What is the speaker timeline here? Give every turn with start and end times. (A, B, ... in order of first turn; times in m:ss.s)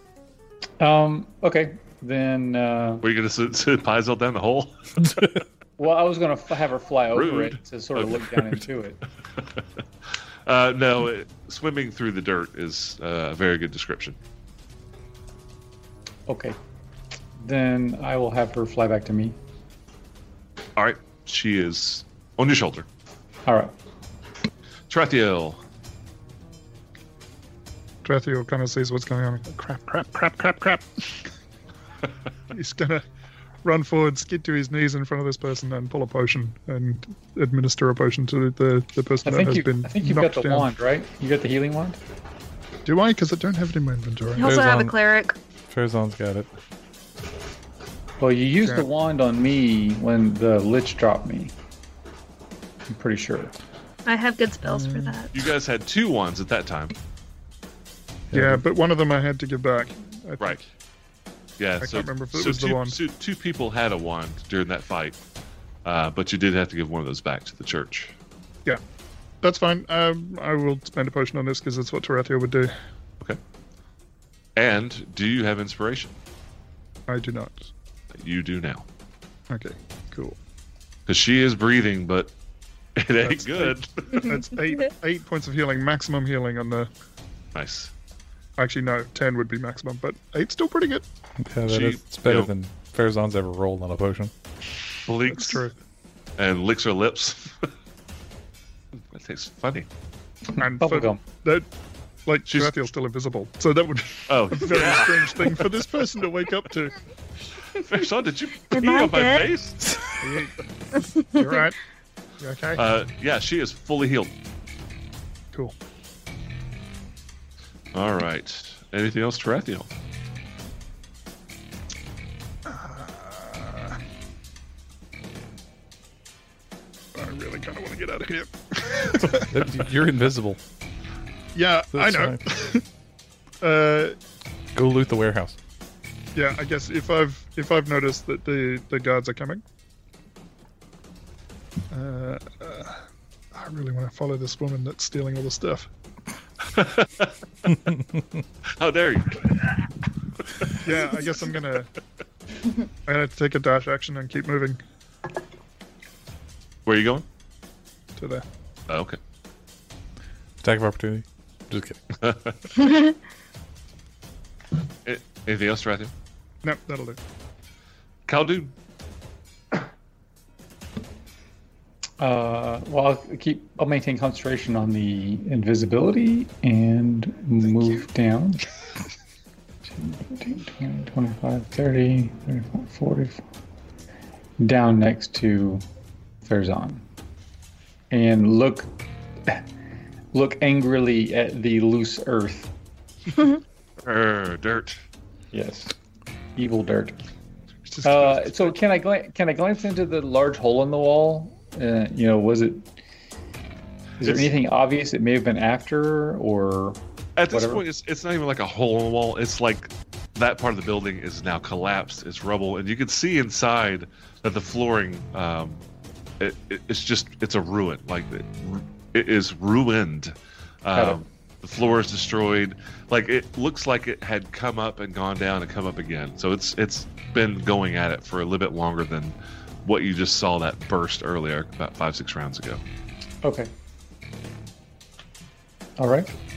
0:00.8-0:03.0 A
0:03.0-0:05.3 B
0:05.0-0:05.4 C
0:05.8-0:09.0 A
0:07.1-0:08.5 B
0:10.5-0:14.2 B
0:16.3-0:16.6 A
0:17.4-0:19.4 A
0:20.8-0:22.9 B
0:23.5-0:23.8 A
0:24.9-0:25.6 B
0:28.0-0:31.2 D
0:32.5-0:33.0 D
0:33.6-0:40.7 D
0:39.2-0:42.0 A
0:42.8-0:44.6 D
0:44.4-0:45.4 E
0:44.4-0:44.9 C
0:45.7-0:46.5 C
0:48.2-0:51.6 A
0:52.9-0:53.5 A
0:54.1-0:55.4 E
0:54.7-0:55.2 D
0:55.3-0:57.0 B
0:58.3-0:58.6 C
0:58.3-1:00.6 D
1:01.6-1:05.2 B
1:01.8-1:03.0 D
1:05.8-1:08.2 B
1:09.4-1:12.7 D
1:14.6-1:16.1 B
1:17.1-1:17.7 D
1:18.2-1:18.9 B
1:19.5-1:20.4 D
1:21.1-1:22.3 B
1:23.0-1:24.3 B
1:23.2-1:23.8 D
1:24.1-1:24.9 E
1:24.3-1:26.9 D
1:27.6-1:27.9 B
1:28.6-1:31.0 D
1:31.4-1:34.3 C
1:31.7-1:32.5 B
1:35.0-1:35.7 B
1:35.3-1:35.7 D
1:36.4-1:37.7 B
1:39.1-1:39.9 B
1:40.6-1:41.2 A
1:40.6-1:41.7 D
1:42.3-1:47.0 D
1:42.5-1:42.8 B
1:44.2-1:45.7 B
1:47.7-1:49.8 B
1:48.7-1:49.5 E
1:50.2-1:50.6 D
1:51.0-1:51.6 E
1:51.4-1:51.8 D
1:52.4-1:52.8 D
1:52.8-1:54.3 B
1:57.9-1:59.9 B
2:02.7-2:04.0 D
2:07.2-2:09.6 D
2:09.3-2:10.6 C
2:11.5-2:12.8 D
2:11.9-2:12.4 C
2:13.6-2:14.2 D
2:14.7-2:15.6 C
2:16.3-2:19.6 D
2:21.9-2:23.0 D
2:23.5-2:25.9 D
2:26.6-2:27.8 B
2:28.7-2:29.9 B
2:30.5-2:31.1 B
2:30.8-2:31.9 D
2:33.1-2:34.8 D
2:36.9-2:37.3 B
2:38.2-2:38.4 D
2:38.9-2:39.2 B
2:40.6-2:42.0 C
2:42.2-2:42.6 B
2:42.8-2:43.2 E
2:45.0-2:46.1 B
2:46.6-2:47.2 D
2:48.3-2:48.7 B
2:52.2-2:58.6 A
2:59.9-3:03.4 A
3:04.6-3:05.8 A
3:06.4-3:07.1 A
3:08.1-3:08.9 A
3:10.3-3:12.7 A
3:14.0-3:15.0 B
3:15.5-3:15.9 A
3:16.6-3:17.2 A
3:17.9-3:18.8 D
3:18.0-3:23.0 A
3:24.2-3:27.8 A
3:27.4-3:35.8 B
3:36.4-3:52.8 B
3:41.0-3:41.2 A
3:53.4-3:53.7 A
3:56.0-3:56.3 A